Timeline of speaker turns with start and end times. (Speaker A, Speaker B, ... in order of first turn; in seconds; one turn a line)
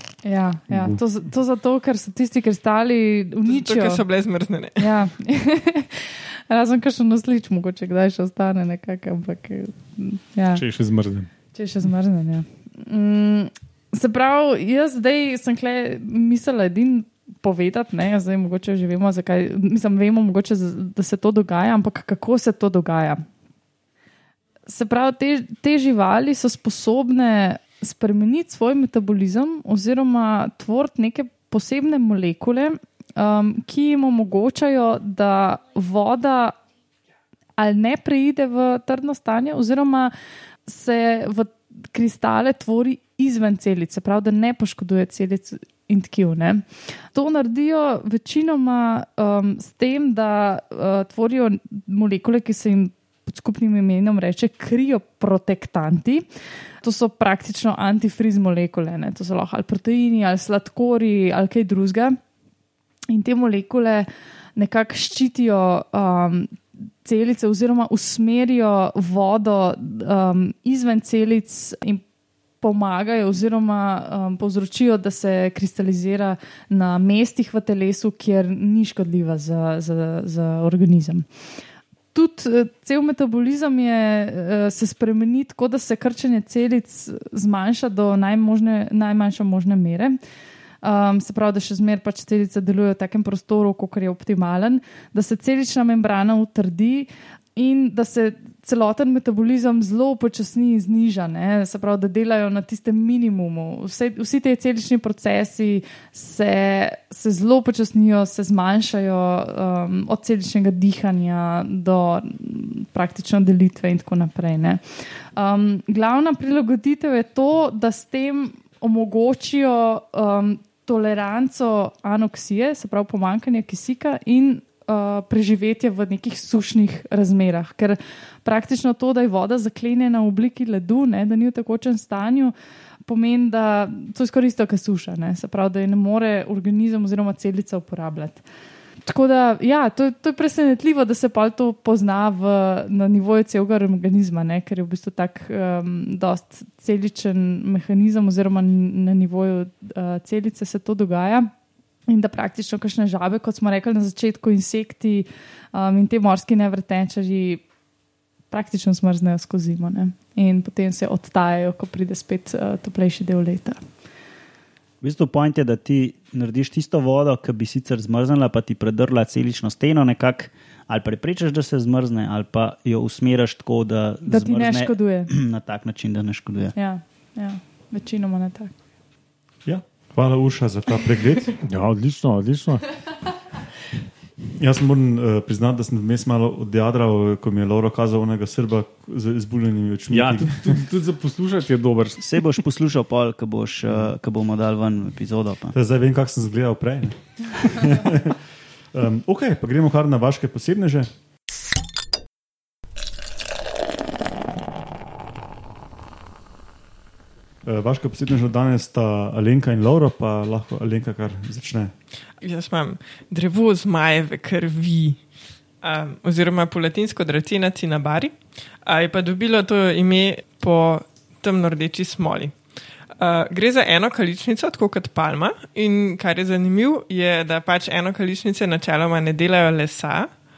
Speaker A: 0.2-4.0
Speaker B: 0.7-1.0
Speaker C: 3.4-4.9
Speaker A: 4.8-10.6
Speaker B: 10.5-11.3
Speaker A: 11.5-23.2
Speaker A: 24.7-36.5
Speaker A: 37.6-40.1
Speaker A: 40.7-56.2
Speaker A: 56.8-62.2
Speaker A: 63.1-72.0
Speaker A: 72.6-81.2
Speaker A: 82.1-90.2
Speaker A: 90.8-132.5
Speaker A: 133.1-138.4
Speaker A: 139.0-151.5
Speaker A: 152.1-157.6
Speaker A: 158.5-163.8
Speaker D: 165.0-176.7
Speaker A: 174.3-175.3
Speaker A: 176.8-178.7
Speaker E: 179.6-181.6
Speaker B: 181.6-182.9
Speaker E: 184.6-190.8
Speaker B: 190.1-192.5
Speaker D: 192.2-195.7
Speaker E: 195.7-198.4
Speaker E: 198.9-201.1
Speaker E: 207.6-211.9
Speaker C: 212.4-215.2
Speaker C: 215.8-222.6
Speaker C: 223.2-230.3